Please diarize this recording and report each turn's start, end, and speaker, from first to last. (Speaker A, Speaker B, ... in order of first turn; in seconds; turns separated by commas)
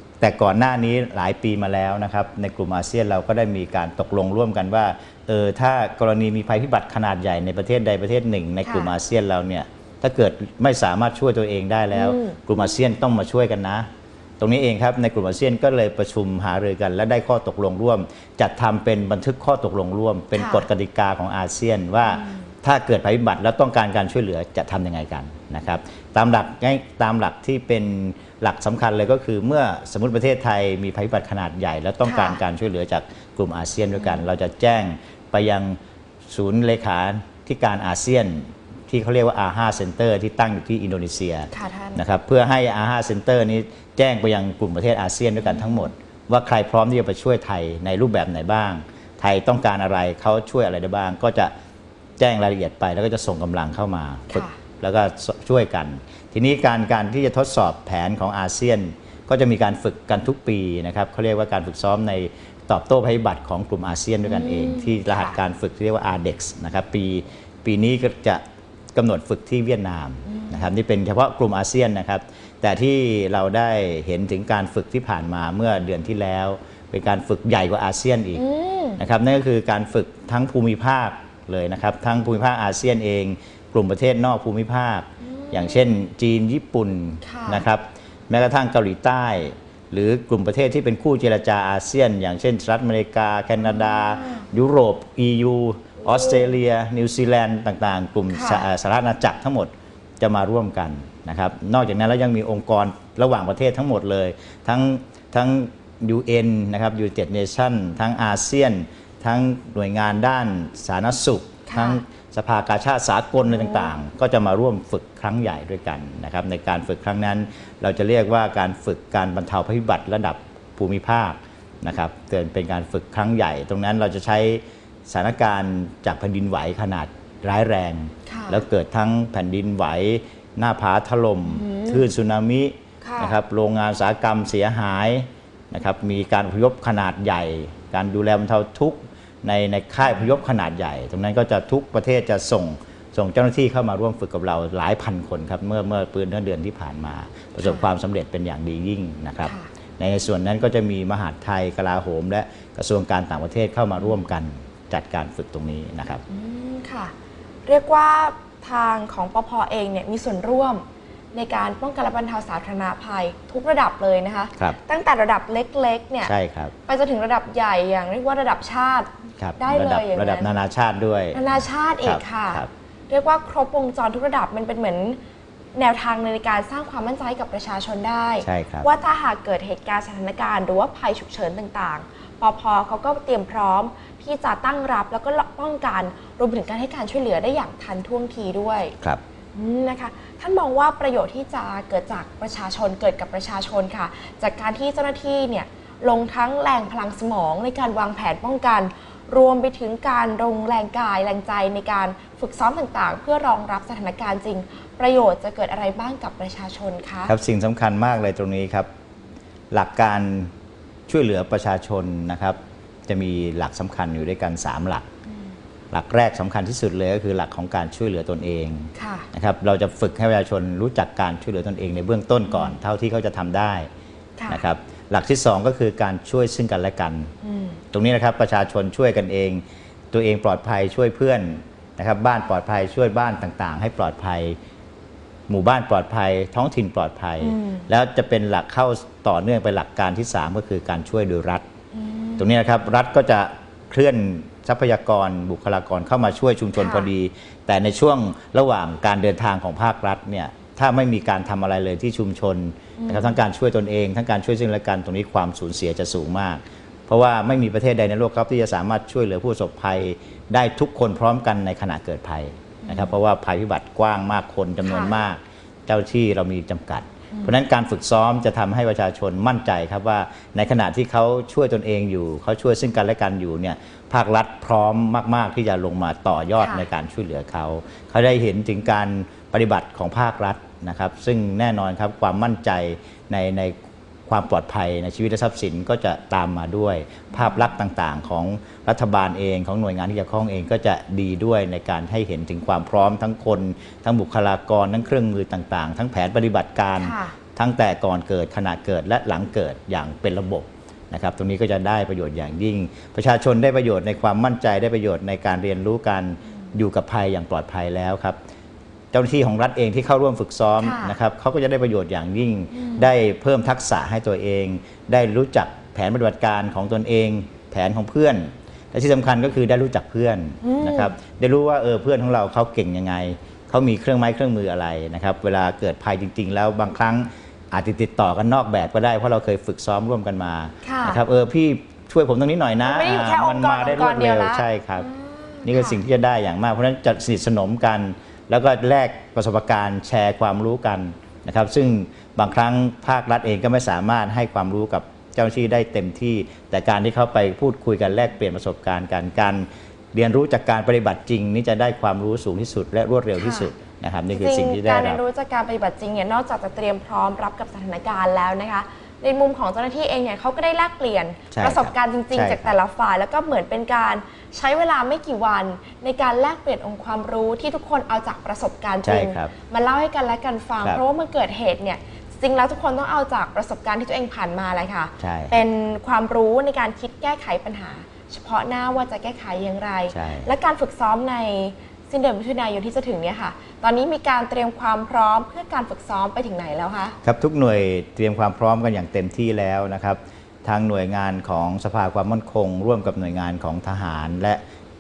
Speaker A: 0.2-13.9, Speaker B: 8.6-8.9, Speaker B: 11.9-12.4, Speaker A: 14.4-35.8, Speaker B: 20.4-20.7, Speaker B: 22.1-22.5, Speaker B: 32.0-32.4, Speaker B: 34.0-34.2, Speaker A: 36.3-51.5, Speaker B: 41.5-42.0, Speaker B: 45.4-45.9, Speaker A: 52.2-68.4, Speaker B: 54.3-54.6, Speaker B: 64.2-65.4, Speaker A: 69.0-78.4, Speaker B: 70.3-70.7, Speaker B: 78.3-79.0, Speaker A: 79.0-156.2, Speaker B: 85.2-86.0, Speaker B: 87.2-87.7, Speaker B: 93.6-94.5, Speaker B: 96.1-96.5, Speaker B: 98.3-98.7, Speaker B: 111.7-112.0, Speaker B: 113.4-114.0, Speaker B: 128.3-128.6, Speaker B: 131.4-132.0, Speaker B: 133.0-133.4, Speaker B: 140.0-140.4, Speaker B: 149.4-149.7, Speaker B: 156.3-157.1, Speaker B: 157.7-166.3, Speaker A: 166.2-166.7, Speaker B: 166.9-170.5, Speaker A: 169.4-172.7, Speaker B: 171.3-175.2, Speaker B: 175.8-188.9, Speaker A: 178.4-178.9, Speaker B: 189.6-207.3, Speaker A: 207.3-208.9, Speaker A: 209.7-210.5, Speaker A: 211.1-215.1, Speaker A: 215.9-223.9, Speaker B: 218.9-219.3, Speaker B: 222.5-222.8, Speaker B: 224.4-224.7, Speaker A: 224.5-227.3, Speaker B: 227.4-227.8, Speaker A: 227.9-234.6, Speaker A: 235.5-241.7, Speaker B: 237.4-237.9, Speaker B: 241.9-242.5, Speaker A: 242.4-283.8, Speaker B: 246.8-247.1, Speaker B: 253.0-253.4, Speaker B: 262.8-263.2, Speaker B: 264.8-265.2, Speaker B: 276.6-276.9, Speaker A: 284.3-308.4, Speaker B: 297.0-297.4, Speaker A: 309.1-335.1, Speaker B: 310.8-311.2, Speaker B: 312.7-313.1, Speaker B: 320.6-321.1, Speaker B: 330.8-331.2, Speaker B: 332.8-336.0, Speaker A: 335.6-355.2, Speaker B: 353.4-353.7, Speaker B: 354.3-387.2, Speaker A: 361.5-362.8, Speaker A: 369.0-369.5, Speaker A: 375.2-375.6, Speaker A: 380.1-380.5, Speaker A: 387.2-394.6